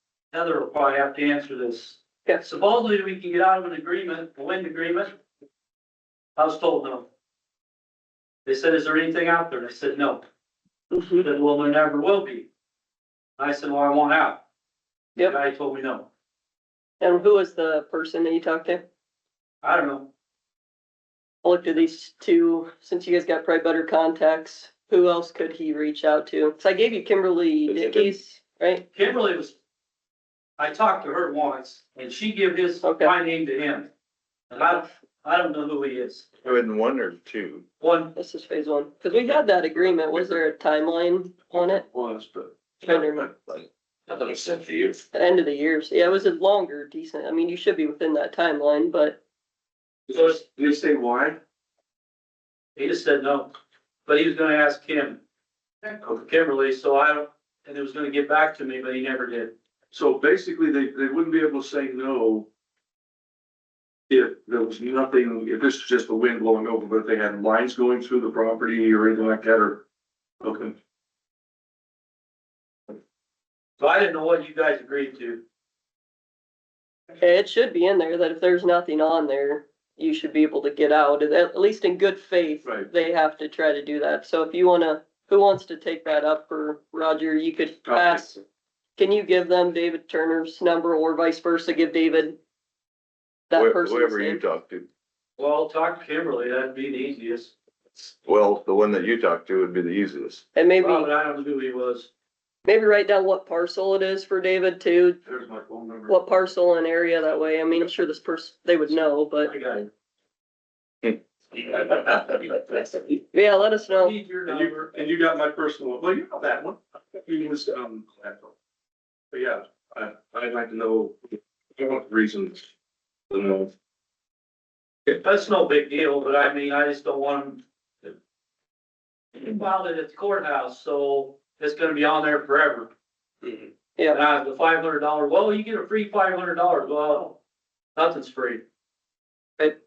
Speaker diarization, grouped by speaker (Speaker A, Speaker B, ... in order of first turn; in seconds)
Speaker A: 0.3-5.2, 6.4-7.1, 8.4-10.2, 11.2-12.5, 13.4-14.4, 15.2-16.1, 19.6-20.1, 28.9-29.6, 30.6-33.9, 34.5-36.3, 37.8-38.1, 50.1-50.6, 52.8-53.5, 54.1-55.2, 55.8-59.5, 73.8-75.4, 95.4-97.5, 100.8-102.1, 109.4-109.9, 114.0-115.0, 125.1-128.1, 129.3-132.9, 134.1-137.4, 138.0-138.6
Speaker B: 10.9-11.3, 17.0-18.9, 21.4-28.9, 32.8-33.1, 38.1-41.9, 42.8-43.3, 45.1-49.2, 77.2-88.4, 89.0-92.4, 93.5-94.5, 100.5-101.1, 102.7-105.2, 106.1-109.8, 113.3-114.2
Speaker C: 27.7-28.1, 36.4-37.6, 44.1-44.7, 93.5-94.9, 98.2-100.4
Speaker D: 41.5-43.0, 50.1-51.4, 59.9-62.5, 64.1-69.8, 70.4-70.8, 82.6-82.9, 87.9-88.3, 105.3-106.2, 111.6-112.0, 112.5-113.2, 114.5-118.5, 119.3-121.2, 121.8-122.7, 123.3-123.7